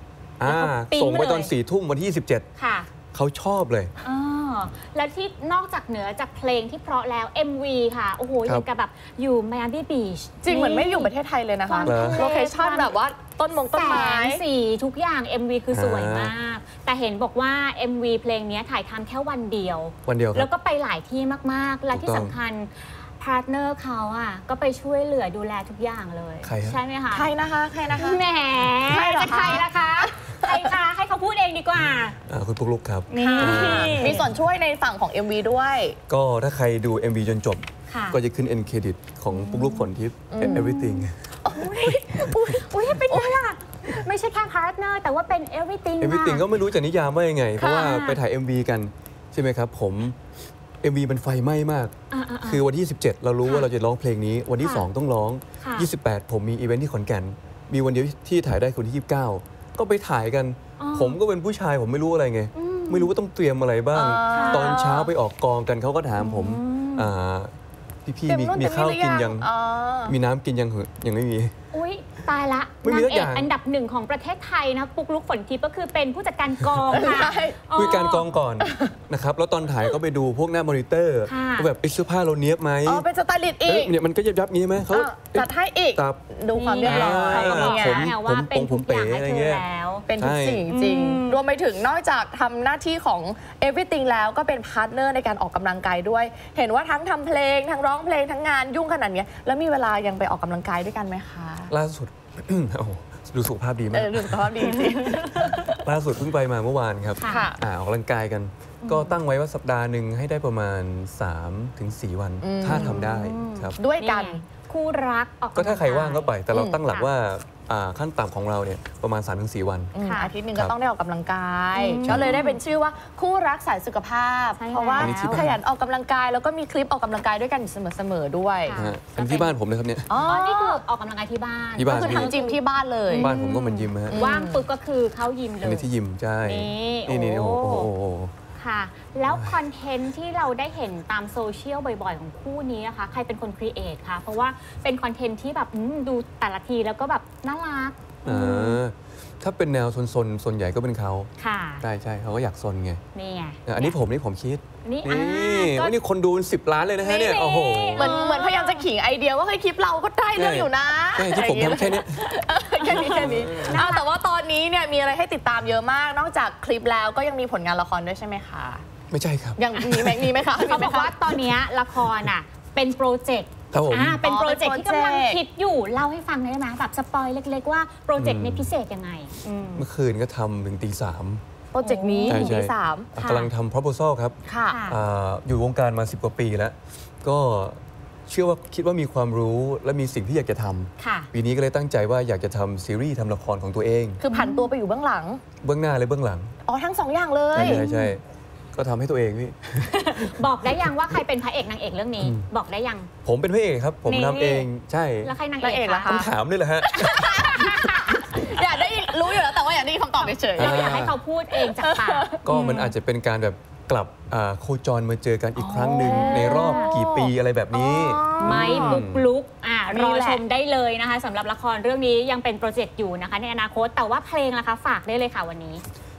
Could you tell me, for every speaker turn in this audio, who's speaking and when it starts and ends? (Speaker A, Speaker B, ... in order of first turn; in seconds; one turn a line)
Speaker A: 0.4-2.5
Speaker B: 0.4-1.5
Speaker B: 2.6-2.9
Speaker A: 3.1-3.9
Speaker B: 4.0-11.1
Speaker C: 10.4-14.4
Speaker B: 11.6-12.9
Speaker A: 11.8-12.3
Speaker B: 13.7-27.3
Speaker A: 15.7-16.3
Speaker A: 20.0-20.5
Speaker A: 21.9-22.4
Speaker A: 26.4-26.8
Speaker C: 27.1-28.2
Speaker B: 27.9-32.1
Speaker C: 28.8-30.7
Speaker A: 32.3-34.3
Speaker B: 33.1-34.3
Speaker C: 33.2-36.0
Speaker A: 36.1-41.2
Speaker B: 37.9-38.2
Speaker B: 39.3-46.5
Speaker C: 40.3-40.6
Speaker C: 41.4-43.4
Speaker A: 46.0-50.2
Speaker C: 47.6-48.1
Speaker A: 50.8-67.5
Speaker B: 52.1-52.6
Speaker B: 53.4-53.7
Speaker B: 54.6-54.9
Speaker B: 55.6-55.9
Speaker B: 60.8-61.2
Speaker B: 62.5-63.1
Speaker C: 63.9-65.1
Speaker B: 64.3-64.8
Speaker B: 66.2-67.1
Speaker A: 68.0-69.5
Speaker C: 68.3-70.1
Speaker A: 70.0-71.5
Speaker B: 71.7-78.3
Speaker A: 72.8-73.5
Speaker A: 76.9-77.2
Speaker C: 76.9-77.6
Speaker A: 77.7-83.0
Speaker C: 78.6-78.9
Speaker B: 81.2-81.7
Speaker C: 82.8-83.9
Speaker A: 83.6-86.2
Speaker C: 84.9-88.1
Speaker B: 86.5-90.1
Speaker A: 86.8-89.6
Speaker C: 90.1-101.7
Speaker A: 90.2-90.7
Speaker B: 90.7-91.4
Speaker A: 101.7-104.7
Speaker C: 103.9-105.8
Speaker A: 105.6-113.8
Speaker B: 107.2-107.5
Speaker C: 107.2-107.6
Speaker B: 108.8-109.2
Speaker C: 112.4-113.0
Speaker B: 112.6-116.4
Speaker C: 113.8-114.4
Speaker A: 115.5-119.9
Speaker C: 116.5-116.8
Speaker C: 119.9-128.8
Speaker B: 120.0-120.3
Speaker B: 121.7-122.6
Speaker A: 122.0-122.4
Speaker B: 124.6-125.4
Speaker A: 125.0-125.6
Speaker B: 128.6-129.5
Speaker A: 128.7-130.1
Speaker C: 130.1-130.8
Speaker B: 130.2-135.9
Speaker A: 131.8-132.3
Speaker C: 131.9-133.3
Speaker A: 133.1-134.3
Speaker C: 134.1-134.6
Speaker A: 135.6-138.3
Speaker B: 136.4-137.9
Speaker B: 138.6-148.8
Speaker A: 139.3-139.6
Speaker A: 148.2-151.3
Speaker B: 151.4-151.8
Speaker A: 151.8-153.0
Speaker B: 153.1-153.9
Speaker A: 153.7-158.3
Speaker B: 154.8-155.9
Speaker B: 157.0-158.9
Speaker C: 157.9-168.8
Speaker A: 160.3-162.3
Speaker B: 162.8-164.0
Speaker A: 163.0-163.8
Speaker A: 169.1-170.2
Speaker C: 169.6-171.4
Speaker B: 169.8-179.9
Speaker A: 173.7-174.2
Speaker C: 174.2-175.4
Speaker A: 178.2-178.7
Speaker A: 179.8-181.4
Speaker C: 181.7-183.1
Speaker B: 181.8-182.6
Speaker A: 182.3-194.2
Speaker B: 183.2-183.5
Speaker C: 184.4-184.8
Speaker B: 184.7-185.0
Speaker B: 191.0-191.3
Speaker C: 194.2-195.4
Speaker B: 194.3-194.7
Speaker A: 195.6-196.5
Speaker C: 196.7-197.8
Speaker A: 197.5-198.2
Speaker B: 197.6-198.2
Speaker A: 198.7-200.4
Speaker B: 199.9-203.1
Speaker A: 202.2-202.4
Speaker A: 203.2-205.3
Speaker B: 204.1-204.7
Speaker B: 205.2-206.2
Speaker C: 205.6-206.3
Speaker A: 206.1-207.4
Speaker C: 206.8-210.9
Speaker B: 207.2-209.2
Speaker B: 210.2-212.9
Speaker A: 210.6-211.2
Speaker C: 211.5-212.4
Speaker A: 212.4-219.3
Speaker B: 215.6-217.0
Speaker C: 215.9-219.0
Speaker B: 218.3-225.8
Speaker C: 219.9-220.4